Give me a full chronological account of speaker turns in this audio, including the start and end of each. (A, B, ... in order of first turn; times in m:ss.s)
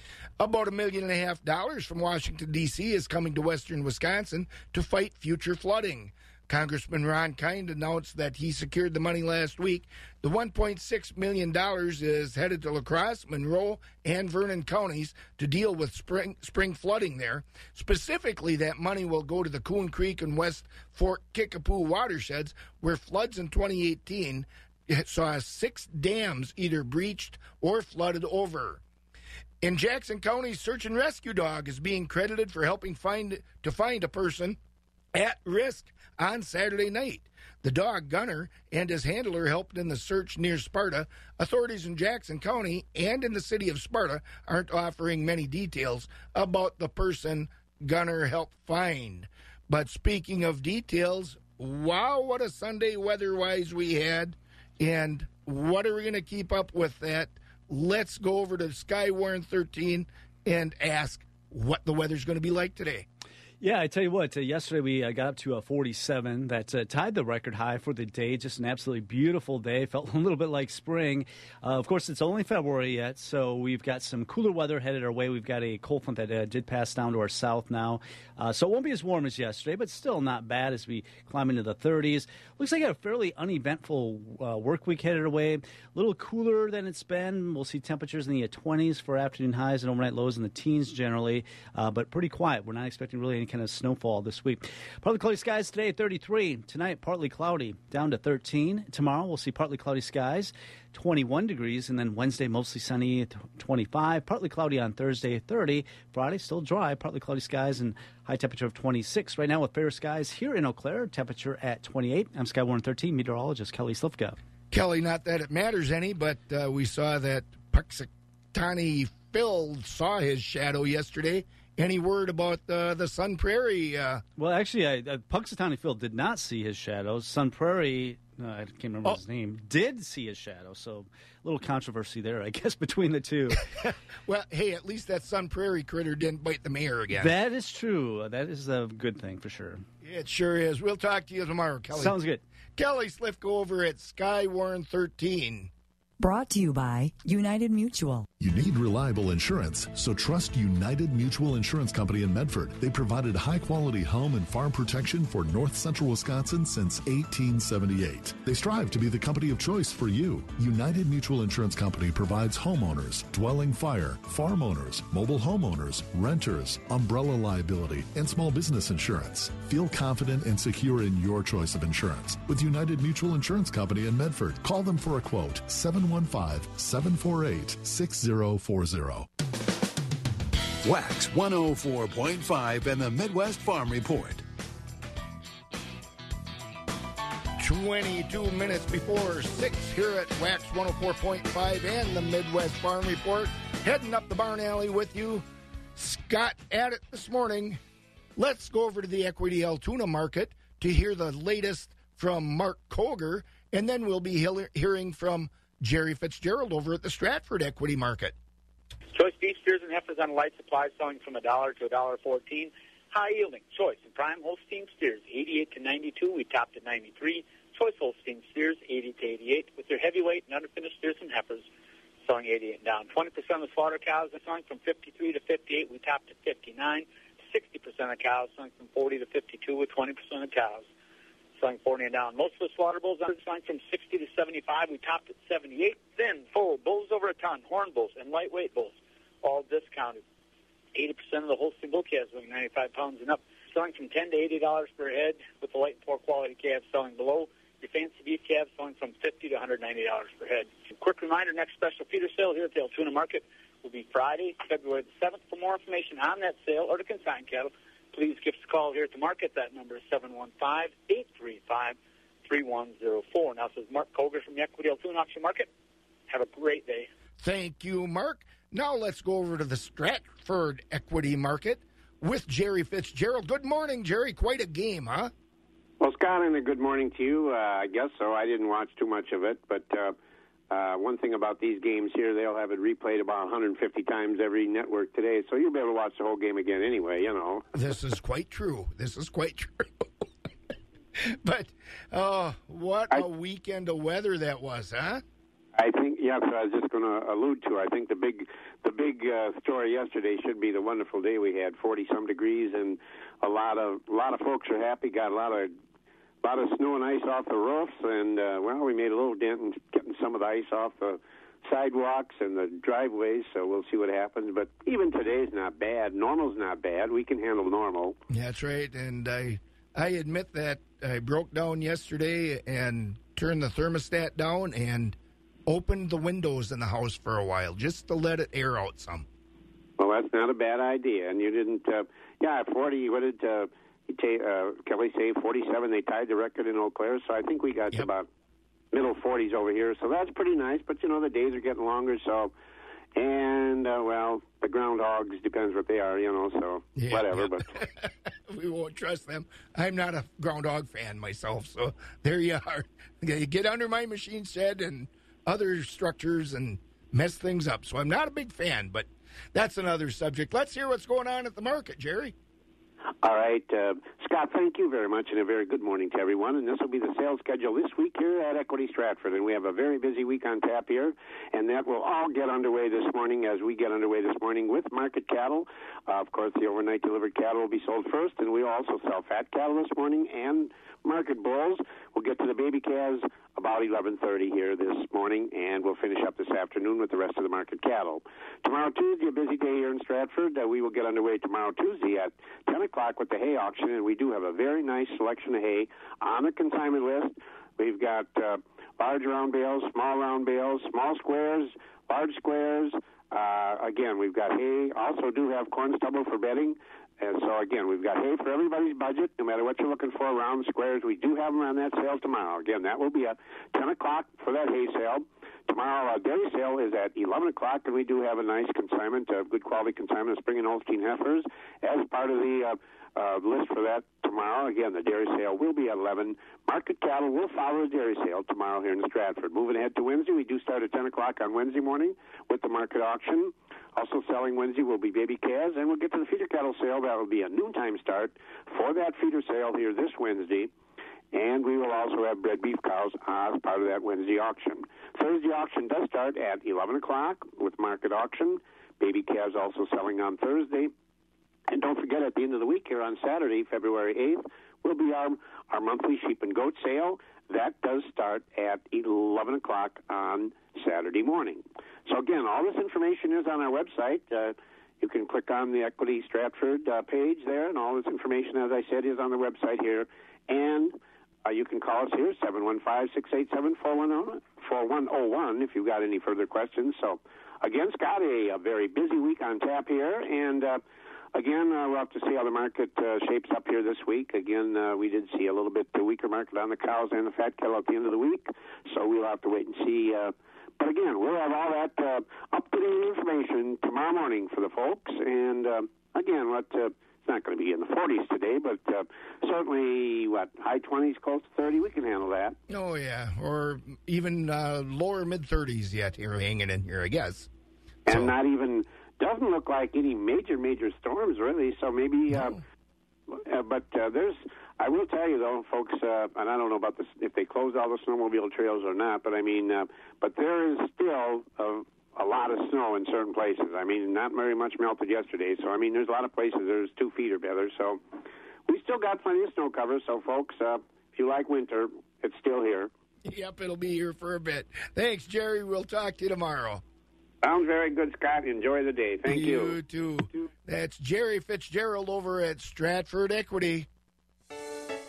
0:00.4-0:28.8 A
0:29.6-0:34.6 A
0:35.1-1:03.1 A
1:03.6-1:54.4 B
1:54.7-2:04.2 A
2:04.4-2:13.6 B
2:13.8-2:17.4 A
2:17.1-2:19.8 B
2:20.0-2:22.2 A
2:21.9-2:22.4 B
2:22.8-2:25.7 A
2:26.2-2:28.3 C
2:28.4-2:59.3 D
3:00.8-3:04.4 E
3:07.6-3:15.4 A
3:16.0-3:17.8 A
3:18.4-3:28.4 A
3:29.1-3:41.6 F
3:42.2-3:50.9 F
3:51.6-4:00.2 F
4:00.9-4:25.7 F
4:26.3-4:27.1 F
4:27.4-4:35.3 A
4:36.0-4:40.2 G
4:40.7-4:47.7 G
4:47.7-4:49.9 A
4:51.2-4:55.2 A
4:55.8-5:05.7 G
5:06.4-5:18.2 G
5:18.3-5:25.2 A
5:25.7-5:29.2 A
5:30.0-5:38.3 G
5:38.9-5:42.5 G
5:43.2-5:47.7 G
5:47.0-6:02.3 A
6:03.2-7:20.7 G
7:21.3-7:30.9 G
7:31.7-8:00.8 G
8:01.3-8:22.6 G
8:22.7-8:27.5 A
8:28.1-8:32.6 G
8:28.1-8:28.4 A
8:33.3-8:48.0 G
8:48.7-8:52.9 G
8:53.3-8:56.8 A
8:57.4-8:59.8 G
8:59.3-9:03.9 A